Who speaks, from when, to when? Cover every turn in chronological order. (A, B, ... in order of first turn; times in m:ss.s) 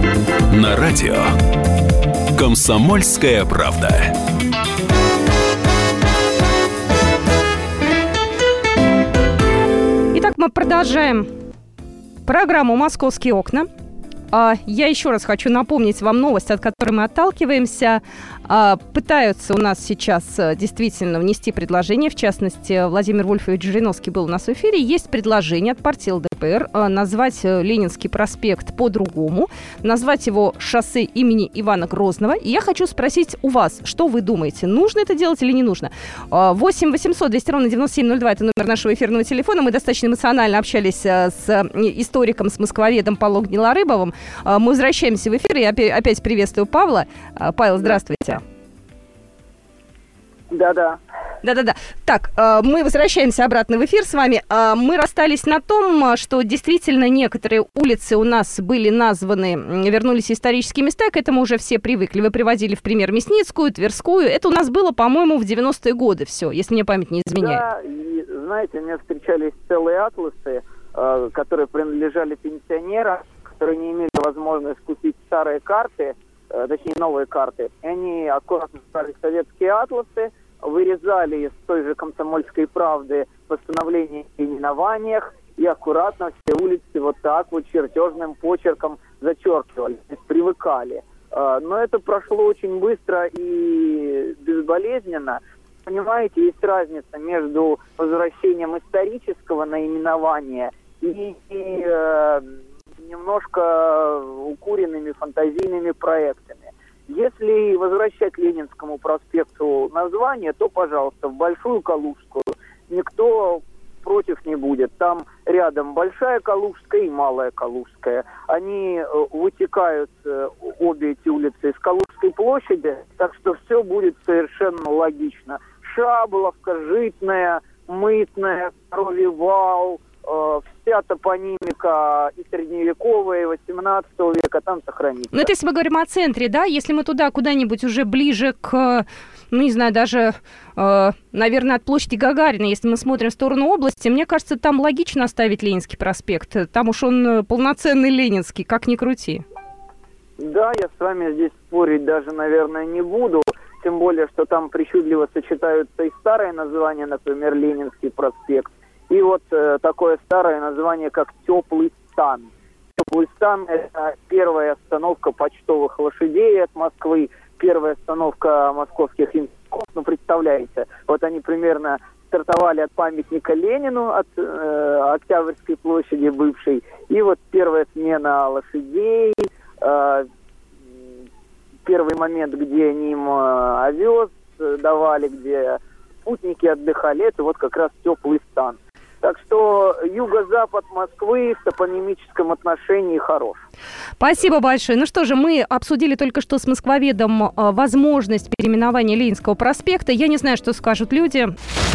0:00.6-0:01.2 A
0:02.4-0:03.9 A
0:10.1-0:11.3 B
0:12.3-0:13.7 B
0:14.3-0:48.4 B
0:50.5-0:51.0 C
0:51.4-1:07.6 B
1:07.4-1:42.5 C
1:43.0-2:15.5 C
2:15.3-2:29.4 B
2:30.4-3:00.3 C
3:01.8-3:13.6 C
3:14.2-3:21.5 B